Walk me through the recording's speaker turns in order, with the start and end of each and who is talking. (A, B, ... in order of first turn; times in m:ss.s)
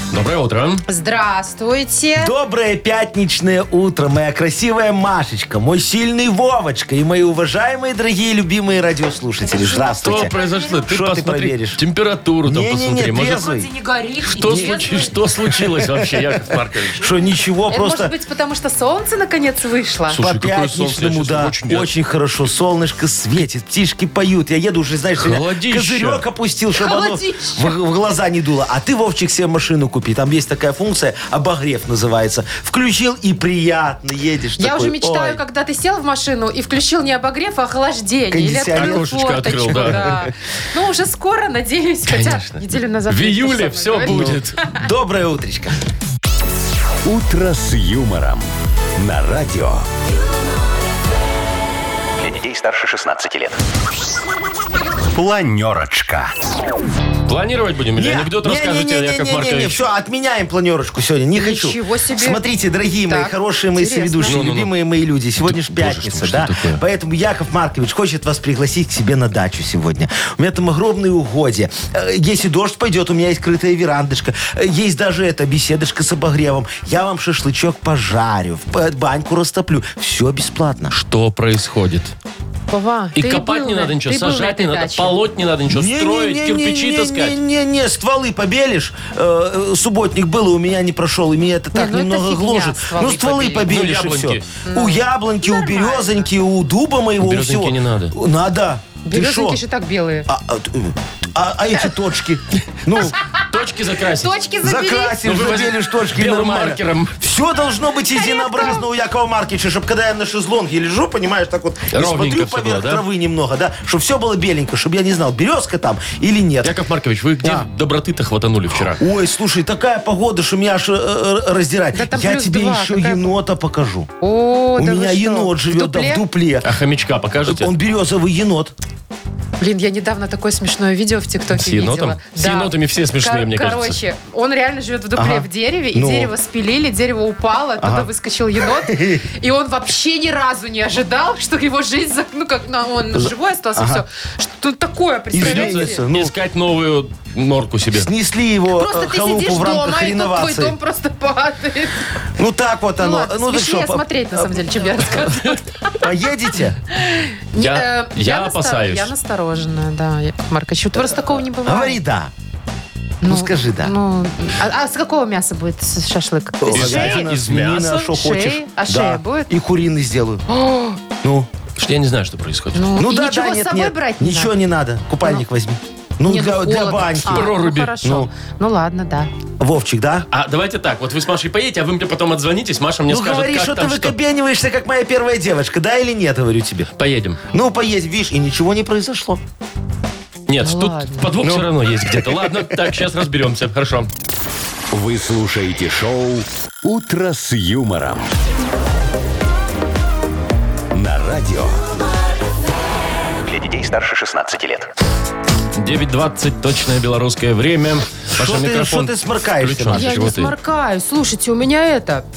0:00.1-0:00.8 A
0:00.9-0:02.3 B
0:02.2-0:10.3 C
0:09.4-0:10.8 B
0:10.0-0:13.4 A
0:10.9-0:11.8 C
0:12.4-0:13.7 C
0:13.3-0:15.2 B
0:14.3-0:17.0 A
0:15.7-0:16.2 C
0:16.9-0:18.1 C
0:17.7-0:20.2 B
0:20.1-0:21.9 A
0:20.2-0:35.4 C
0:25.2-0:26.2 A
0:26.8-0:27.7 B
0:34.6-0:44.3 B
0:38.3-0:39.1 C
0:38.7-0:40.1 A
0:39.7-0:40.1 C
0:42.1-0:44.6 A
0:44.0-0:45.7 C
0:47.0-0:48.4 D
0:49.0-0:49.9 D
0:52.2-0:53.6 D
0:55.1-0:56.3 D
0:57.3-0:59.8 A
0:58.0-1:20.9 C
1:01.4-1:02.4 B
1:03.1-1:04.4 B
1:04.2-1:04.7 A
1:05.4-1:06.8 A
1:20.9-1:22.1 A
1:22.7-1:25.2 B
1:23.2-1:27.4 A
1:25.7-1:39.6 C
1:31.7-1:33.7 B
1:33.7-1:34.4 A
1:34.6-1:36.3 B
1:37.2-1:38.1 A
1:39.0-1:40.3 B
1:40.3-1:43.2 C
1:43.5-1:44.3 A
1:44.2-1:45.3 B
1:44.6-1:56.8 C
1:45.2-1:47.2 A
1:48.1-1:48.8 B
1:51.9-1:53.0 A
1:56.6-1:59.0 A
1:58.9-2:04.1 C
2:01.9-2:03.2 B
2:04.2-2:06.2 B
2:04.8-2:06.7 C
2:06.6-2:07.7 A
2:07.5-2:08.7 C
2:09.6-2:26.0 B
2:11.5-2:14.0 A
2:15.2-2:16.3 C
2:17.8-2:18.1 C
2:18.6-2:19.2 C
2:23.1-2:24.0 C
2:25.3-2:26.3 C
2:25.4-2:28.1 A
2:27.9-2:30.8 C
2:28.7-2:32.0 B
2:32.4-2:35.3 C
2:33.0-2:36.0 B
2:36.0-2:36.8 C
2:36.9-2:42.0 B
2:37.6-2:39.1 A
2:41.6-2:42.3 C
2:43.2-2:47.3 B
2:43.2-2:43.9 C
2:46.6-2:50.4 C
2:46.7-2:48.0 A
2:48.1-2:49.5 B
2:50.5-2:51.0 B
2:51.2-2:51.5 C
2:51.8-2:52.9 A
2:52.7-2:54.5 B
2:52.9-2:58.3 C
2:56.2-2:59.3 B
2:57.3-2:58.0 A
2:59.6-3:00.3 C
3:00.3-3:04.1 A
3:03.1-3:06.9 C
3:07.0-3:07.4 A
3:07.5-3:09.4 C
3:10.5-3:14.1 A
3:10.6-3:11.3 B
3:11.4-3:12.6 C
3:14.9-3:18.3 D
3:20.9-3:21.9 D
3:23.4-3:24.9 D
3:25.8-3:30.5 A
3:28.3-3:30.3 C
3:29.9-3:32.2 B